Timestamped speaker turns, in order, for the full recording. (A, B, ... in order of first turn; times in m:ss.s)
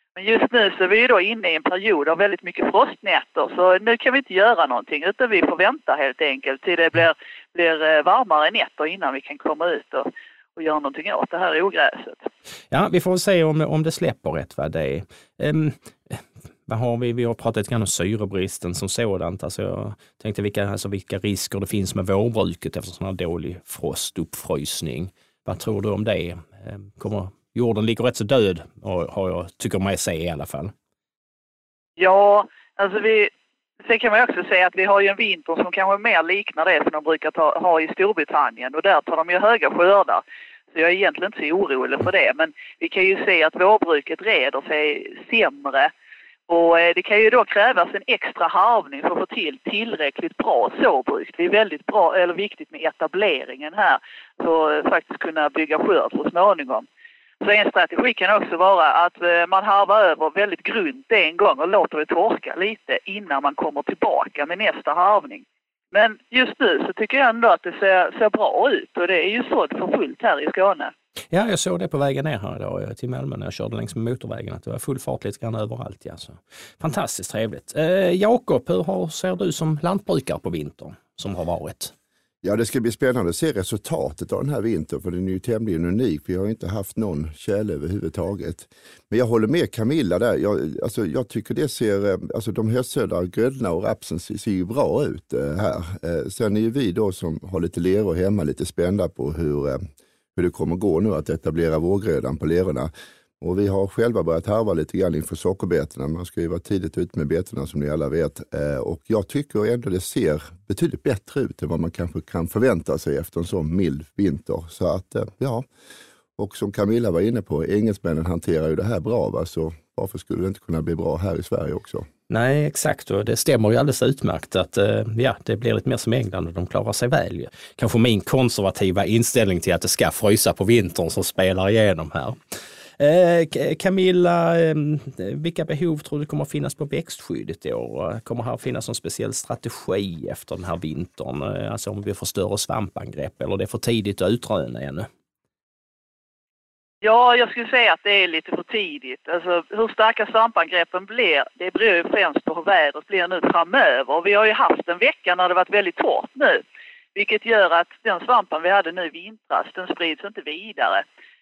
0:00.2-0:12.3 A
0:12.7-0:30.7 B
0:32.0-0:33.3 A
0:33.8-0:45.9 A
0:46.5-0:56.8 A
0:57.4-1:10.9 A
1:11.3-1:21.9 B
1:22.4-1:39.8 C
1:40.4-1:55.6 C
1:56.4-2:02.0 C
2:02.3-2:12.4 B
2:13.0-2:25.1 B
2:27.0-2:36.6 A
2:37.1-2:41.0 A